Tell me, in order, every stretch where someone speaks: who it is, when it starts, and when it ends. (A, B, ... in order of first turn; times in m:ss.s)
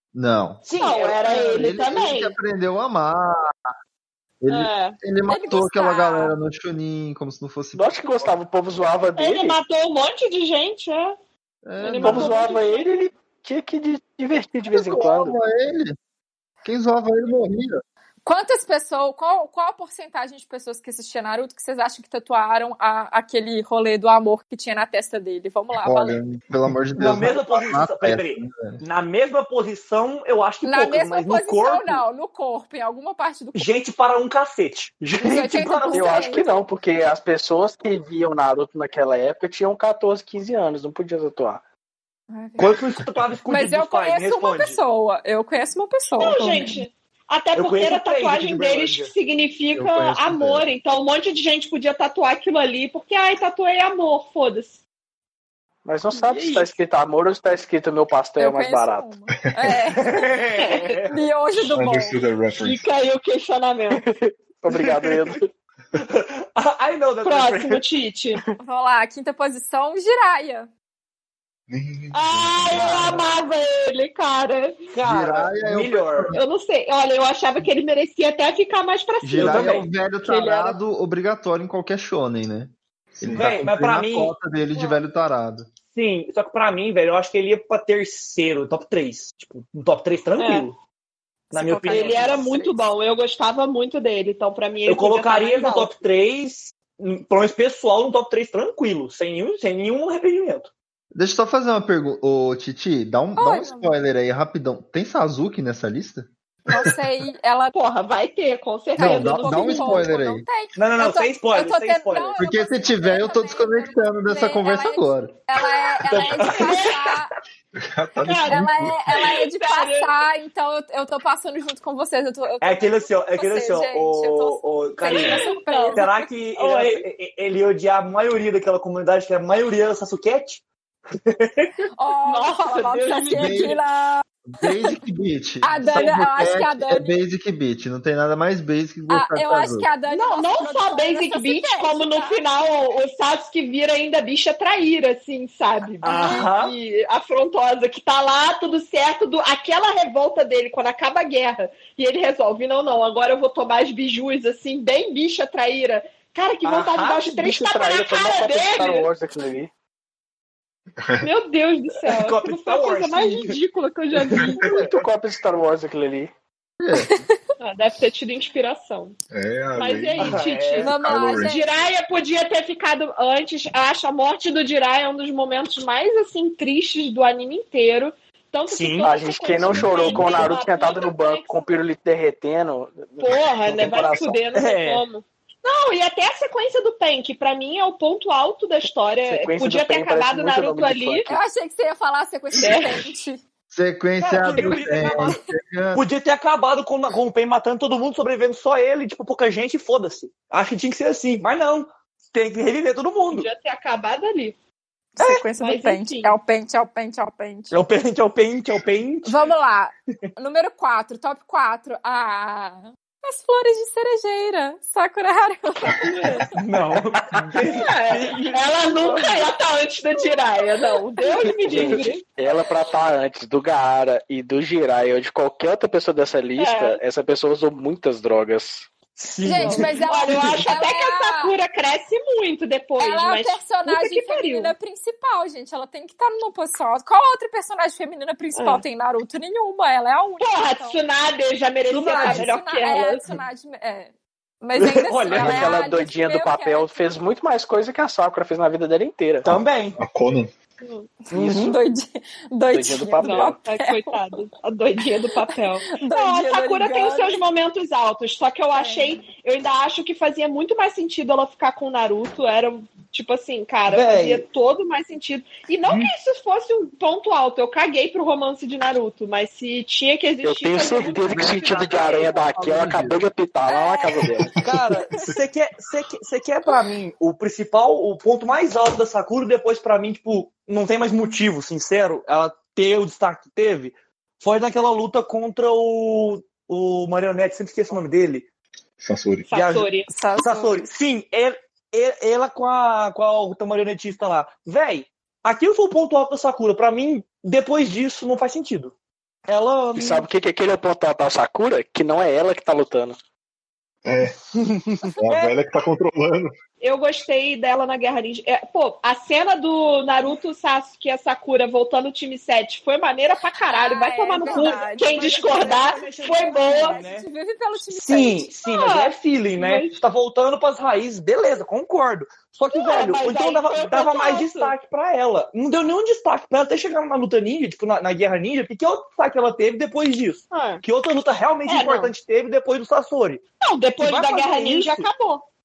0:00.1-0:00.6 A
0:00.6-0:01.6 B
0:00.8-0:02.4 C
0:01.3-0:03.5 A
0:04.4-0:08.1 A
0:04.5-0:05.0 C
0:05.3-0:06.4 D
0:07.7-0:09.6 E
0:09.2-0:11.1 C
0:11.6-0:12.4 A
0:11.8-0:12.9 C
0:12.0-0:15.4 E
0:14.7-0:16.0 A
0:16.6-0:17.8 A
0:18.2-0:26.2 D
0:25.8-0:28.8 A
0:27.0-0:32.0 B
0:30.6-0:33.8 D
0:33.6-0:36.4 B
0:35.2-0:36.5 D
0:35.9-0:41.6 E
0:42.3-0:42.8 D
0:42.6-0:44.8 B
0:43.5-0:46.8 D
0:46.2-0:54.8 C
0:47.6-0:49.1 B
0:49.7-0:50.6 A
0:55.8-0:59.1 E
0:56.1-0:56.7 C
0:58.4-1:00.2 D
0:59.9-1:01.1 B
1:01.1-1:02.2 D
1:01.6-1:02.9 F
1:02.5-1:04.0 C
1:03.9-1:05.5 E
1:04.7-1:05.4 B
1:06.0-1:07.8 B
1:07.2-1:08.4 C
1:08.6-1:10.7 D
1:11.7-1:13.3 F
1:12.1-1:14.9 C
1:14.9-1:16.4 B
1:15.0-1:16.4 A
1:16.3-1:20.8 C
1:19.2-1:25.7 A
1:19.4-1:19.9 B
1:23.2-1:23.6 F
1:23.3-1:24.3 B
1:25.9-1:30.8 B
1:30.4-1:30.7 C
1:31.5-1:32.4 B
1:31.5-1:32.8 D
1:31.9-1:35.9 C
1:34.9-1:40.7 B
1:41.1-1:46.3 A
1:43.4-1:43.9 D
1:46.7-1:47.8 D
1:47.7-1:50.1 C
1:49.0-1:50.4 A
1:49.0-1:57.3 D
1:50.8-1:52.4 B
1:52.4-1:55.3 A
1:56.1-1:56.9 B
1:56.1-1:57.0 C
1:57.8-1:59.0 F
1:58.2-2:00.1 C
1:58.5-2:06.1 D
2:02.6-2:10.6 B
2:05.1-2:07.0 C
2:11.2-2:11.7 B
2:12.0-2:14.9 D
2:12.2-2:13.7 C
2:13.3-2:13.8 A
2:14.5-2:19.9 A
2:15.6-2:17.2 D
2:19.1-2:22.4 D
2:20.1-2:39.1 C
2:26.0-2:26.8 B
2:26.1-2:26.5 D
2:36.6-2:37.3 B
2:37.3-2:39.7 E
2:41.2-2:44.6 C
2:42.1-2:43.6 B
2:44.4-2:44.7 F
2:44.4-2:44.9 B
2:44.6-2:46.3 E
2:46.8-2:47.1 A
2:46.9-2:47.3 D
2:47.6-2:49.2 C
2:49.3-2:51.6 F
2:49.8-3:01.7 C
2:50.2-2:50.9 B
2:50.8-2:51.7 D
2:58.7-2:59.1 B
2:59.0-3:04.4 E
2:59.6-3:00.6 F
3:03.2-3:11.4 C
3:04.5-3:05.0 B
3:09.3-3:11.4 E
3:11.3-3:13.4 D
3:12.6-3:13.1 C
3:13.7-3:16.0 A
3:14.2-3:15.4 B
3:15.9-3:23.5 B
3:23.3-3:24.6 C
3:25.2-3:27.8 D
3:25.6-3:26.4 C
3:27.7-3:29.5 B
3:29.2-3:36.5 D
3:36.0-3:36.5 C
3:36.6-3:39.5 B
3:37.6-3:42.2 C
3:41.4-3:42.1 B
3:41.7-3:48.9 E
3:46.6-3:47.0 C
3:49.2-3:50.7 B
3:49.4-3:51.6 D
3:49.6-3:54.7 C
3:53.0-4:01.0 D
3:58.6-3:58.8 C
4:00.4-4:03.3 C
4:01.9-4:02.5 B
4:02.1-4:07.0 D
4:04.8-4:05.8 B
4:05.3-4:09.6 E
4:09.4-4:10.0 B
4:10.0-4:10.5 F
4:10.8-4:11.1 C
4:11.3-4:11.8 E
4:11.3-4:14.2 D
4:11.4-4:11.6 B
4:12.7-4:13.6 E
4:13.2-4:32.4 C
4:15.9-4:17.4 D
4:18.7-4:19.2 D
4:23.9-4:24.5 B
4:30.4-4:34.6 E
4:31.3-4:33.2 A
4:33.7-4:34.3 D
4:34.6-4:48.5 B
4:49.0-4:49.5 F
4:49.5-4:50.1 C
4:49.5-4:58.9 B
4:50.1-4:50.9 D
4:59.5-5:00.2 B
5:00.0-5:03.2 E
5:04.1-5:04.4 F
5:04.6-5:05.5 B
5:05.2-5:06.5 F
5:06.8-5:17.0 C
5:13.7-5:18.5 D
5:14.4-5:17.3 B
5:17.8-5:33.4 B
5:18.6-5:20.0 C
5:22.7-5:24.7 C
5:30.5-5:30.8 C
5:31.6-5:32.1 C
5:33.6-5:35.5 C
5:34.0-5:35.1 B